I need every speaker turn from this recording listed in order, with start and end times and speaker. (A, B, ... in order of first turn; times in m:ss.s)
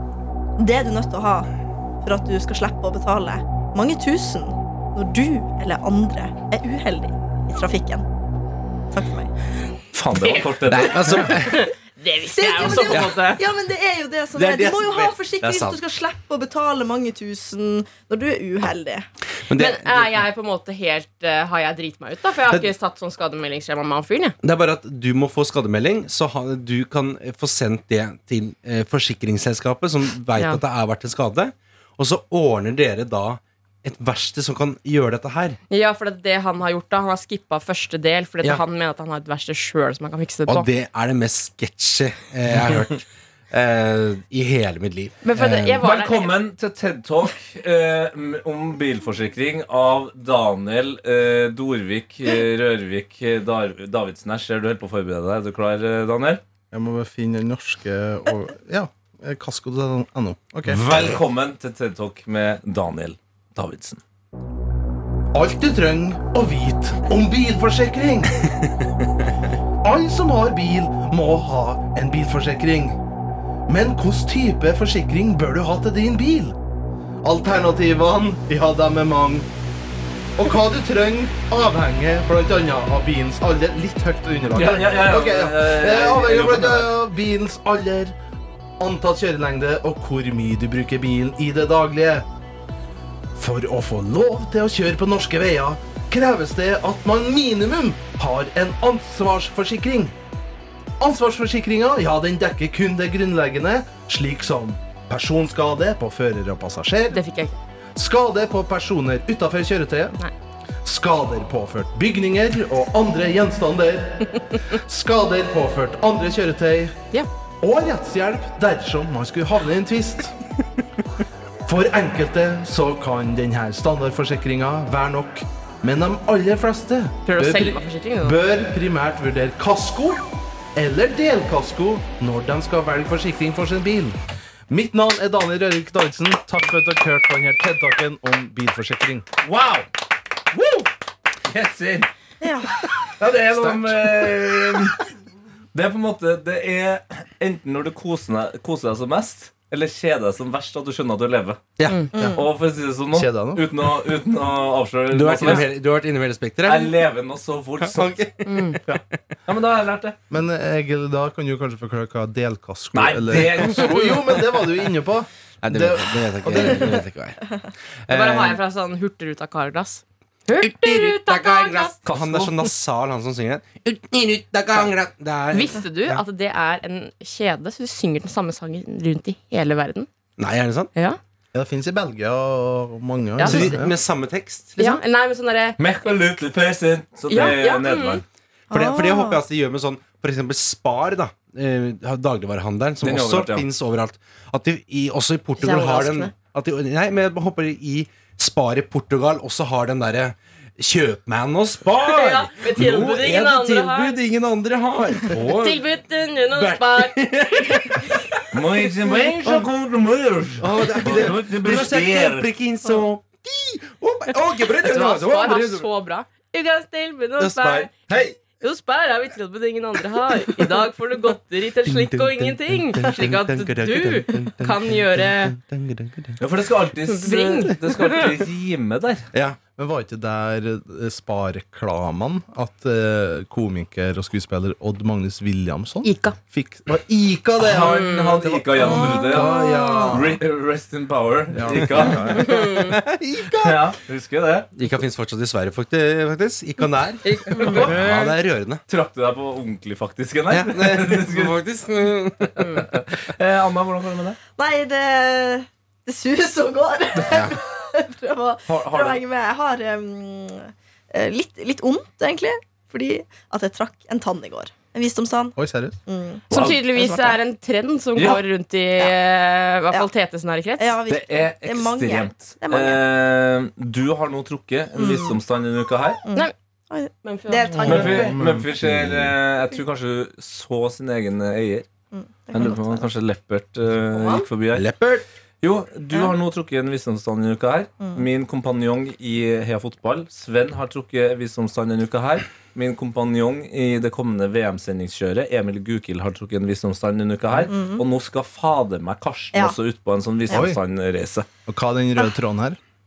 0:00.6-0:01.5 A
0:02.0-0:08.0 A
0:08.9-0:09.3 A
0:09.9-0:11.3 B
0:10.2-0:13.4 C
0:10.7-0:11.7 D
0:12.3-0:19.0 A
0:12.6-0:13.1 D
0:14.3-0:15.8 D
0:19.5-0:20.2 D
0:19.5-0:24.4 C
0:24.4-0:35.6 D
0:35.7-0:40.7 C
0:40.5-0:45.8 D
0:45.2-0:46.3 C
0:45.8-0:56.4 B
0:56.7-1:00.8 E
1:00.7-1:04.0 B
1:05.3-1:08.5 E
1:09.8-1:13.0 E
1:13.7-1:16.6 E
1:17.2-1:19.5 E
1:20.4-1:28.2 E
1:24.5-1:26.9 B
1:28.8-1:32.3 E
1:33.4-1:40.1 E
1:41.0-1:47.2 E
1:47.1-1:47.6 C
1:48.0-1:50.2 E
1:50.8-1:57.0 E
1:57.6-2:00.4 E
2:01.7-2:14.2 E
2:07.3-2:08.4 C
2:14.7-2:19.2 E
2:19.4-2:19.9 B
2:20.5-2:20.9 B
2:21.5-2:22.1 B
2:22.4-2:22.8 A
2:23.2-2:25.0 B
2:23.6-2:24.3 E
2:25.7-2:31.6 B
2:31.8-2:32.1 D
2:32.1-2:32.5 A
2:32.2-2:35.7 B
2:33.1-2:33.6 E
2:35.1-2:37.0 D
2:36.6-2:38.3 B
2:37.8-2:39.0 D
2:38.5-2:38.8 C
2:38.9-2:40.2 B
2:40.3-2:47.0 E
2:42.9-2:44.3 B
2:45.6-2:47.4 D
2:48.0-2:48.6 D
2:48.1-2:52.0 C
2:50.6-2:56.2 D
2:52.1-2:52.6 B
2:55.5-3:00.1 C
3:00.4-3:00.9 D
3:01.5-3:04.0 E
3:03.4-3:03.8 C
3:03.4-3:05.0 D
3:04.8-3:05.8 C
3:05.8-3:08.2 B
3:07.3-3:08.2 C
3:08.7-3:09.4 A
3:08.7-3:25.8 D
3:13.0-3:13.6 B
3:15.6-3:16.3 C
3:22.0-3:24.2 C
3:25.4-3:28.2 C
3:26.5-3:28.4 D
3:28.5-3:32.5 B
3:30.6-3:35.9 D
3:34.8-3:37.9 C
3:37.4-3:38.1 D
3:38.6-3:45.6 C
3:41.8-3:46.4 D
3:46.4-3:49.3 B
3:47.1-3:48.2 C
3:49.3-3:49.6 D
3:49.8-4:00.4 E
3:56.0-3:56.4 C
3:57.6-3:59.5 B
3:57.8-3:58.4 C
3:58.8-3:59.6 A
4:00.1-4:02.6 B
4:01.5-4:02.6 E
4:01.7-4:03.8 D
4:02.3-4:03.0 C
4:03.6-4:04.7 B
4:04.8-4:08.8 D
4:07.2-4:08.3 C
4:08.9-4:11.6 B
4:10.5-4:12.9 D
4:12.6-4:14.4 B
4:14.6-4:25.6 A
4:17.3-4:17.6 D
4:18.7-4:19.2 B
4:25.6-4:26.0 E
4:26.1-4:27.4 A
4:26.5-4:31.0 C
4:26.5-4:26.8 B
4:28.2-4:28.4 B
4:30.8-4:33.0 A
4:31.1-4:36.2 B
4:35.0-4:35.4 A
4:36.2-4:38.3 A
4:37.2-4:38.1 C
4:37.8-4:41.9 B
4:37.9-4:39.0 E
4:38.8-4:39.3 D
4:42.1-4:43.1 A
4:42.5-4:44.9 B
4:44.7-4:45.2 D
4:45.6-5:01.5 B
4:57.7-4:58.0 A
5:00.5-5:00.8 E
5:01.7-5:02.8 E